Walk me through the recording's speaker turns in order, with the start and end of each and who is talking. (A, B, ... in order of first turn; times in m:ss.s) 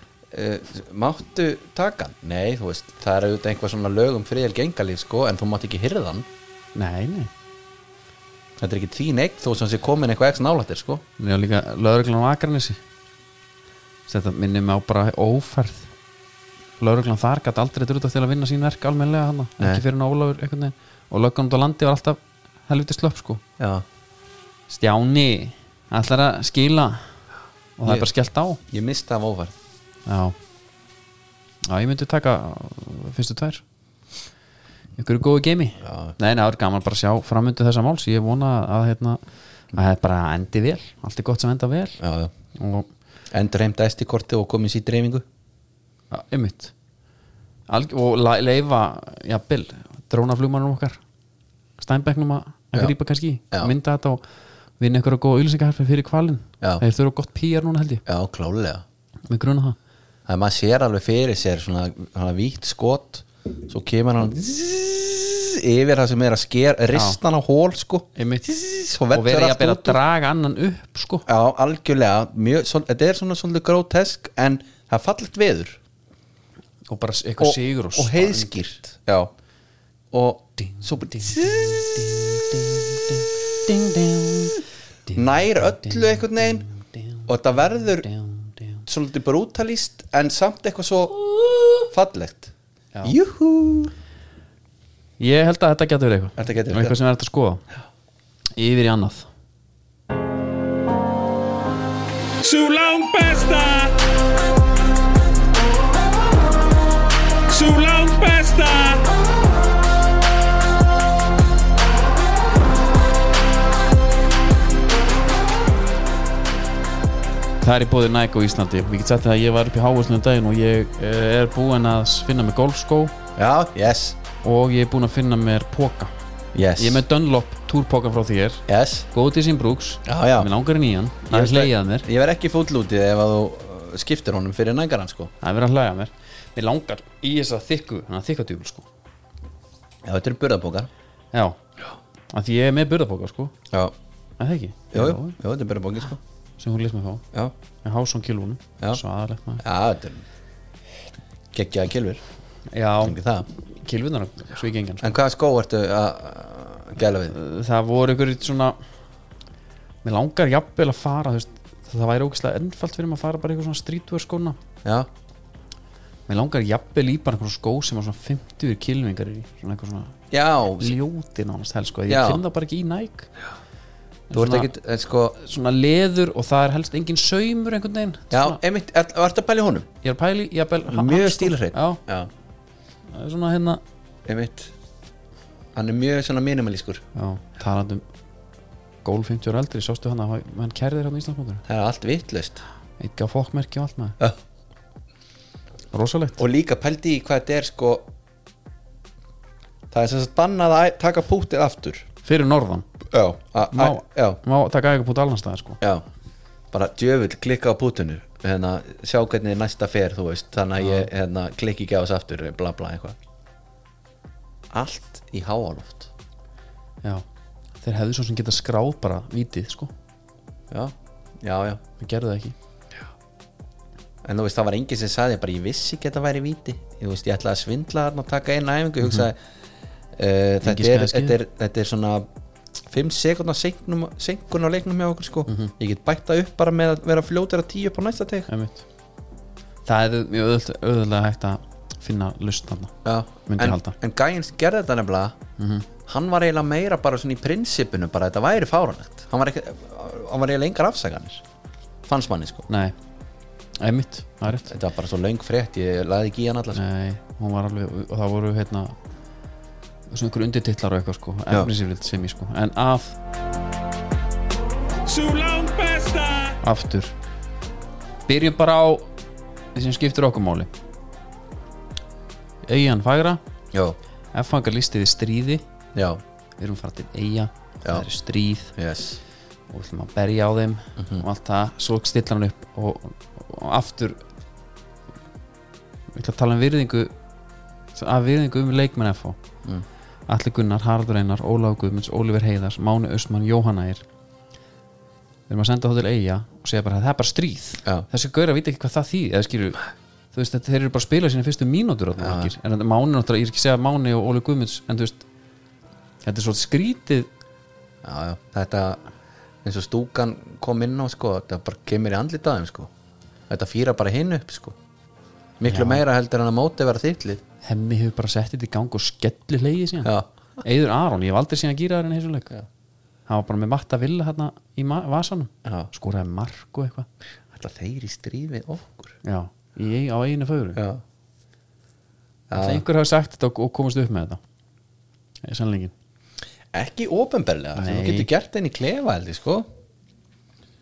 0:00.3-0:06.3 A
0:06.8-0:07.3 B
0:08.6-0:11.0 A
0:11.2-0:12.8 B
0:14.1-0:15.9 B
0:16.8-0:23.4 B
0:23.6-0:23.8 A
0:24.7-0:27.1 B
0:27.8-0:28.6 B
0:28.7-0:29.6 A
0:30.1-0:30.4 B
0:31.7-0:33.6 B
0:35.0-0:39.2 B
0:35.8-0:36.2 A
0:39.7-0:42.0 B
0:42.0-0:42.3 A
0:42.6-0:42.9 B
0:43.3-0:45.2 A
0:46.1-0:46.7 B
0:47.7-0:51.0 B
0:51.8-0:54.2 B
0:54.8-0:58.0 B
0:58.1-0:58.8 A
0:59.3-0:59.8 B
1:00.3-1:10.0 A
1:06.9-1:07.2 B
1:08.2-1:08.5 B
1:09.1-1:11.3 B
1:11.3-1:15.8 A
1:16.9-1:18.6 B
1:17.4-1:19.3 A
1:20.1-1:22.6 A
1:20.7-1:22.8 B
1:23.6-1:26.2 B
1:25.1-1:26.7 A
1:26.7-1:27.3 B
1:27.3-1:28.1 A
1:28.1-1:28.8 B
1:28.9-1:32.5 A
1:33.0-1:33.9 A
1:35.2-1:37.6 B
1:36.4-1:37.0 A
1:38.6-1:39.3 B
1:42.4-1:44.0 C
1:47.5-1:49.0 C
1:57.6-2:03.1 B
2:03.4-2:04.2 A
2:04.4-2:06.1 B
2:06.5-2:07.0 A
2:06.8-2:12.1 B
2:08.7-2:09.1 A
2:10.0-2:10.5 A
2:11.3-2:15.3 A
2:15.4-2:18.9 B
2:20.0-2:20.9 A
2:21.3-2:21.6 B
2:22.3-2:23.5 B
2:24.4-2:25.4 B
2:24.9-2:26.2 A
2:26.6-2:27.2 B
2:27.8-2:29.6 B
2:29.6-2:30.2 A
2:31.5-2:32.2 A
2:32.7-2:33.2 B
2:33.0-2:33.5 A
2:33.8-2:35.1 B
2:35.0-2:37.4 A
2:37.3-2:38.8 B
2:40.0-2:44.6 B
2:44.8-2:45.1 A
2:46.3-2:50.2 B
2:50.3-2:51.0 A
2:50.8-2:53.3 B
2:52.1-2:52.4 A
2:54.3-2:54.7 B
2:54.3-2:55.4 A
2:55.4-2:58.6 B
2:58.3-2:59.9 A
3:00.0-3:02.0 B
3:00.9-3:02.3 A
3:03.1-3:03.8 B
3:04.3-3:04.7 A
3:05.7-3:07.0 A
3:07.2-3:08.0 B
3:09.0-3:11.6 B
3:11.7-3:12.6 A
3:13.0-3:14.2 B
3:15.9-3:16.4 B
3:16.4-3:18.1 A
3:19.9-3:22.1 A
3:22.2-3:22.9 B
3:23.1-3:24.4 A
3:23.7-3:25.8 B
3:26.7-3:33.2 A
3:30.8-3:31.1 B
3:34.7-3:36.1 A
3:37.8-3:39.9 B
3:40.7-3:41.8 A
3:42.0-3:42.6 B
3:44.2-3:49.4 A
3:50.2-3:52.2 A
3:50.6-3:51.4 B
3:52.9-3:58.5 A
3:55.5-3:55.7 B
3:58.5-3:58.8 B
3:59.9-4:02.9 B
4:03.0-4:05.4 A
4:03.5-4:04.0 B
4:05.6-4:05.9 B
4:06.1-4:11.4 A
4:12.1-4:12.7 A
4:12.7-4:13.0 B
4:13.8-4:14.7 B
4:14.7-4:16.8 A
4:16.7-4:19.0 B
4:20.1-4:23.2 B
4:25.1-4:26.6 C
4:26.6-4:27.1 B
4:28.3-4:29.1 B
4:29.8-4:30.7 B
4:32.6-4:33.4 B
4:34.3-4:35.6 B
4:36.0-4:36.2 A
4:36.6-4:38.7 B
4:38.8-4:39.2 A
4:39.7-4:44.2 B
4:41.0-4:41.2 A
4:46.2-4:47.1 B
4:48.0-4:49.4 B
4:50.3-4:54.0 B
4:55.5-4:59.8 B
5:00.3-5:05.2 B
5:02.2-5:02.5 A
5:06.2-5:07.3 B
5:08.0-5:09.0 A
5:09.6-5:12.9 A
5:13.5-5:14.8 A
5:15.6-5:17.4 A
5:15.7-5:16.0 B
5:17.6-5:22.5 B
5:23.3-5:27.1 B
5:25.6-5:25.9 A
5:27.5-5:29.2 A
5:29.2-5:30.8 B
5:30.8-5:31.0 A
5:32.5-5:32.8 A
5:32.6-5:34.4 B
5:35.4-5:35.9 B
5:36.7-5:39.7 A
5:37.8-5:38.3 B